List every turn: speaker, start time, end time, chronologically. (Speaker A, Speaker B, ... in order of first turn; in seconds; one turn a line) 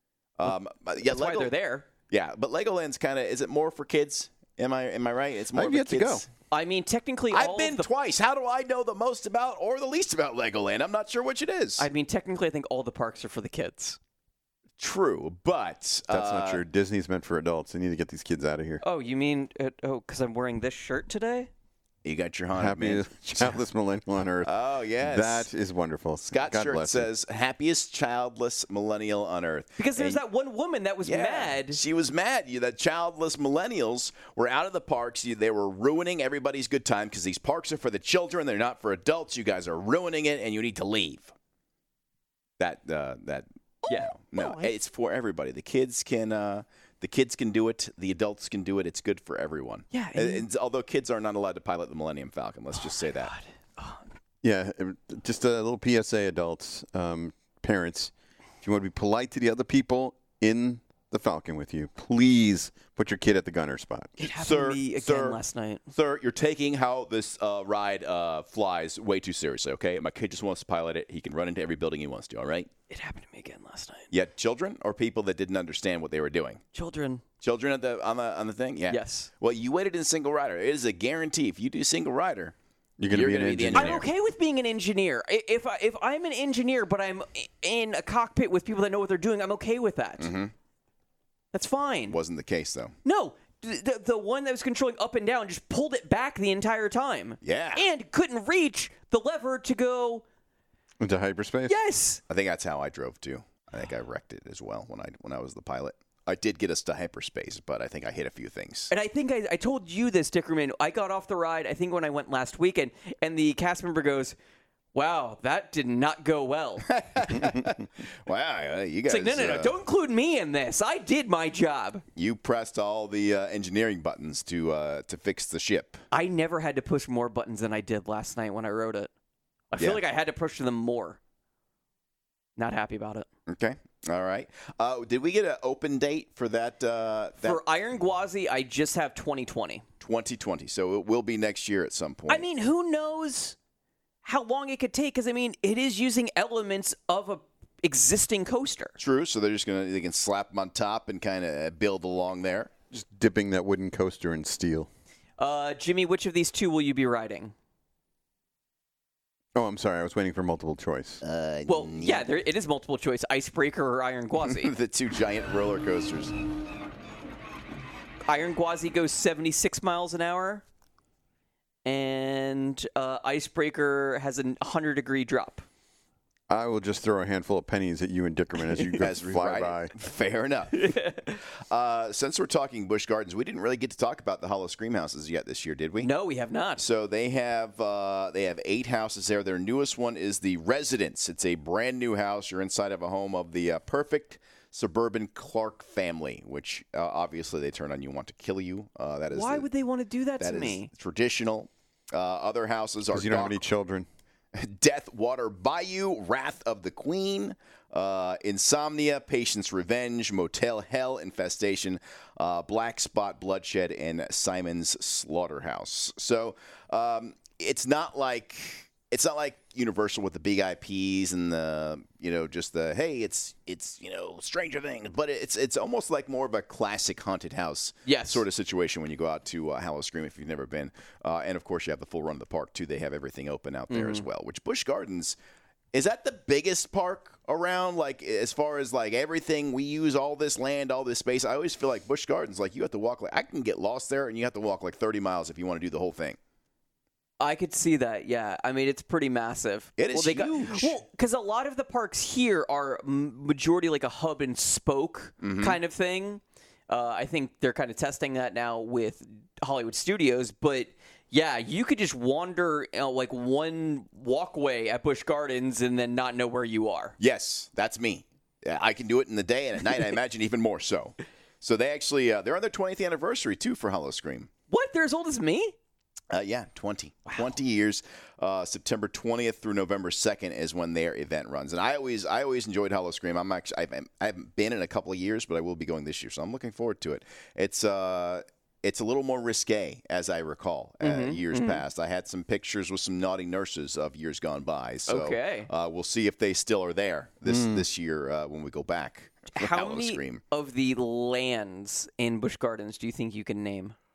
Speaker A: 0.4-1.5
Speaker B: 1.0-1.9
Speaker A: 2.1-6.3
Speaker C: 5.5-6.2
Speaker B: 6.5-7.9
Speaker A: 7.3-11.9
Speaker B: 11.8-14.0
Speaker A: 14.8-16.6
Speaker C: 16.1-18.8
Speaker B: 18.8-21.5
Speaker A: 22.0-23.5
Speaker C: 22.6-27.1
Speaker A: 24.4-25.5
Speaker A: 26.2-30.2
Speaker B: 29.8-31.8
Speaker A: 31.1-41.3
Speaker A: 42.6-53.3
Speaker B: 43.9-44.7
Speaker B: 49.9-50.5
Speaker B: 52.8-54.0
Speaker C: 54.4-64.2
Speaker B: 64.2-65.9
Speaker A: 64.3-72.7
Speaker B: 72.9-74.1
Speaker A: 74.1-76.6
Speaker B: 76.7-77.2
Speaker A: 77.4-82.5
Speaker B: 78.9-79.3
Speaker C: 83.0-84.0
Speaker A: 83.1-84.1
Speaker B: 83.8-90.3
Speaker A: 90.2-90.5
Speaker B: 91.5-92.2
Speaker A: 92.1-93.0
Speaker B: 93.0-100.2
Speaker A: 97.4-97.8
Speaker C: 101.0-101.8
Speaker B: 101.7-102.2
Speaker A: 102.3-108.9
Speaker B: 108.9-114.3
Speaker B: 114.9-117.3
Speaker A: 116.9-119.8
Speaker B: 119.1-122.0
Speaker A: 122.2-126.0
Speaker B: 126.1-129.1
Speaker B: 129.7-131.2
Speaker B: 132.6-133.3
Speaker A: 133.5-137.6
Speaker B: 137.4-139.8
Speaker A: 140.0-142.4
Speaker B: 142.3-143.6
Speaker B: 144.2-148.9
Speaker A: 149.0-152.7
Speaker C: 152.9-154.9
Speaker B: 155.4-157.5
Speaker C: 159.6-161.2
Speaker A: 161.2-162.3
Speaker B: 161.7-164.7
Speaker A: 164.5-166.3
Speaker B: 168.3-170.6
Speaker B: 171.8-175.7
Speaker C: 176.5-179.9
Speaker A: 179.0-180.9
Speaker B: 180.7-181.4
Speaker A: 181.7-186.1
Speaker B: 186.0-186.8
Speaker A: 186.8-199.7
Speaker B: 199.3-200.9
Speaker A: 200.4-203.6
Speaker C: 203.1-204.1
Speaker A: 204.6-235.4
Speaker B: 228.1-228.4
Speaker B: 233.9-234.2
Speaker A: 235.9-246.4
Speaker B: 247.4-267.2
Speaker A: 250.0-251.0
Speaker A: 255.4-255.8
Speaker A: 267.2-274.5
Speaker B: 274.7-275.8
Speaker A: 276.3-300.4
Speaker B: 291.0-291.8
Speaker B: 295.1-295.7
Speaker C: 297.5-297.9
Speaker B: 299.5-303.9